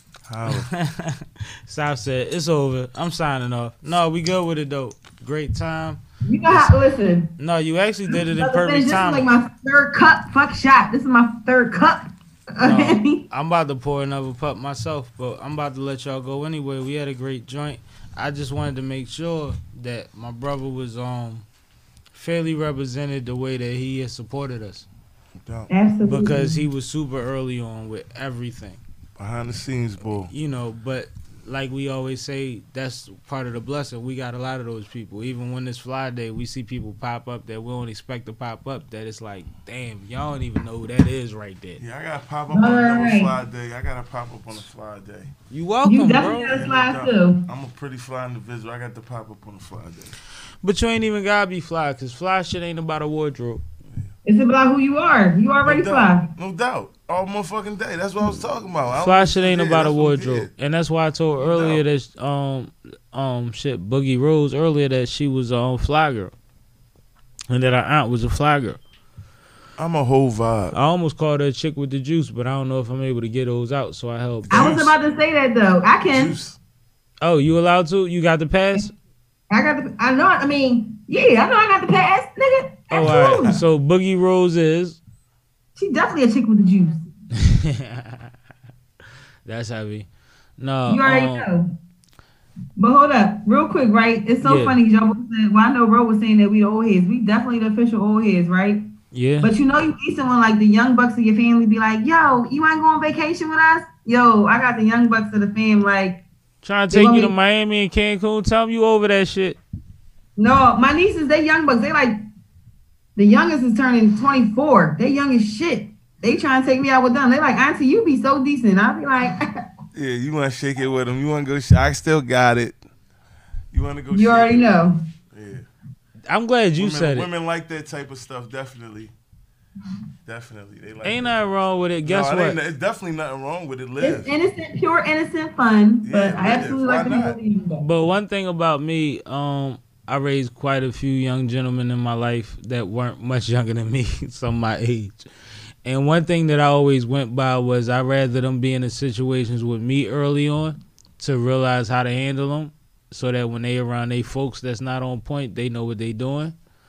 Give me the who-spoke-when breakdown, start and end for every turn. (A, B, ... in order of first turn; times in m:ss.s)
0:00.3-0:00.7 A
0:00.5-0:06.7 B
0:06.2-0:07.3 C
0:07.4-0:09.3 B
0:08.1-0:13.2 C
0:12.6-0:21.4 B
0:22.1-0:24.9 B
0:25.4-0:25.7 A
0:25.7-0:26.6 C
0:26.0-0:28.8 B
0:29.2-0:30.3 A
0:30.3-0:41.8 B
0:41.8-0:45.3 A
0:42.5-0:43.3 C
0:45.5-0:46.6 B
0:45.8-0:47.5 C
0:46.5-0:50.1 A
0:50.6-0:53.6 B
0:54.2-0:56.3 C
0:55.6-1:00.5 A
0:59.0-1:06.3 B
1:01.4-1:01.8 A
1:07.5-1:08.8 B
1:09.8-1:10.8 A
1:10.7-1:14.7 B
1:14.5-1:15.0 A
1:14.5-1:16.4 C
1:16.1-1:16.6 A
1:17.2-1:18.9 B
1:19.5-1:23.6 C
1:22.9-1:25.0 B
1:25.8-1:27.1 C
1:27.4-1:28.3 B
1:29.4-1:30.1 B
1:30.6-1:31.5 B
1:30.9-1:31.7 C
1:32.8-1:38.8 C
1:34.4-1:34.8 B
1:39.1-1:39.5 B
1:39.4-1:46.2 C
1:46.6-1:49.6 B
1:46.9-1:47.3 C
1:50.4-1:52.2 C
1:53.2-1:59.6 C
1:59.9-2:02.8 A
2:03.7-2:05.7 A
2:04.1-2:05.0 C
2:06.3-2:07.3 B
2:06.8-2:09.1 A
2:10.2-2:14.3 A
2:11.0-2:12.6 B
2:14.0-2:17.8 C
2:16.0-2:17.4 A
2:17.8-2:25.3 B
2:25.8-2:36.6 B